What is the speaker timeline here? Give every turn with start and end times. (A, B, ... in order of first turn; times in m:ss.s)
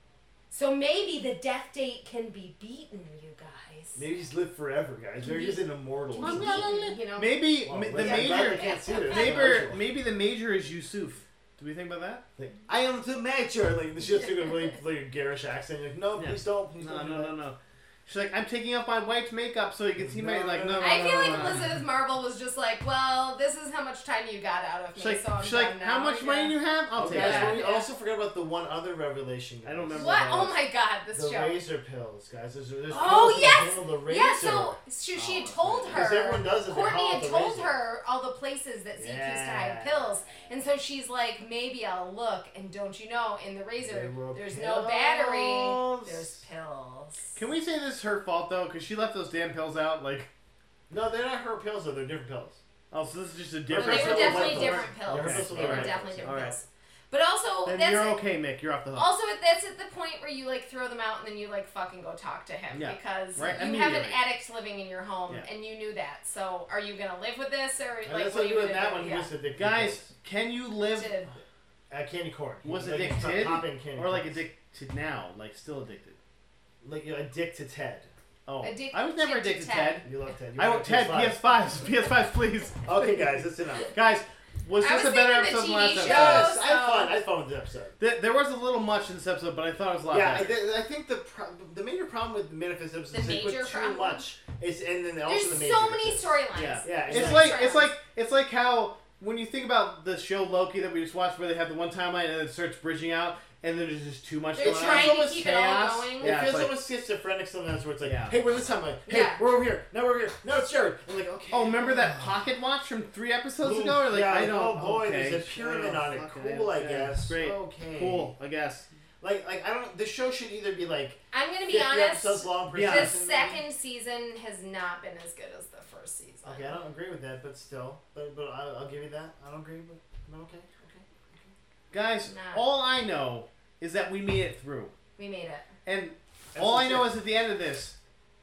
0:00.5-0:04.1 A
0:04.0-0:06.7 B
0:05.2-0:07.4 A
0:06.2-0:12.2 C
0:07.6-0:09.9 B
0:08.0-0:09.6 A
0:12.4-0:17.4 B
0:14.1-0:14.7 A
0:16.2-0:21.8 C
0:20.0-0:21.7 B
0:20.8-0:27.9 A
0:25.0-0:27.6 C
0:27.0-0:30.2 B
0:29.6-0:30.6 C
0:29.9-0:31.6 A
0:31.1-0:37.8 B
0:32.9-0:47.4 A
0:35.2-0:36.1 C
0:39.0-0:40.5 B
0:43.8-0:46.4 B
0:47.4-0:50.3 C
0:50.9-0:52.6 B
0:52.9-0:56.6 C
0:53.7-0:56.5 B
0:53.8-0:58.2 A
0:57.6-0:59.1 C
0:59.0-1:09.3 A
1:02.7-1:04.2 C
1:08.0-1:10.1 B
1:09.5-1:11.2 C
1:10.9-1:11.3 A
1:11.9-1:14.4 B
1:12.6-1:16.2 C
1:16.8-1:18.1 B
1:18.5-1:22.9 C
1:18.6-1:20.1 A
1:20.0-1:21.4 B
1:22.8-1:24.0 B
1:23.9-1:26.5 C
1:24.8-1:27.2 A
1:26.0-1:28.0 B
1:28.0-1:30.6 C
1:30.1-1:37.6 B
1:33.1-1:34.3 A
1:35.3-1:37.9 A
1:36.5-1:46.8 C
1:44.6-1:46.4 A
1:44.6-1:45.5 B
1:46.2-1:52.4 B
1:48.0-1:48.4 C
1:49.1-1:49.5 A
1:51.5-1:58.9 C
1:53.6-1:58.3 B
1:59.2-2:03.6 B
2:01.3-2:06.7 A
2:02.7-2:03.2 C
2:06.4-2:11.5 B
2:11.9-2:14.9 C
2:12.2-2:12.6 A
2:15.2-2:15.7 A
2:15.9-2:18.0 C
2:16.6-2:17.2 B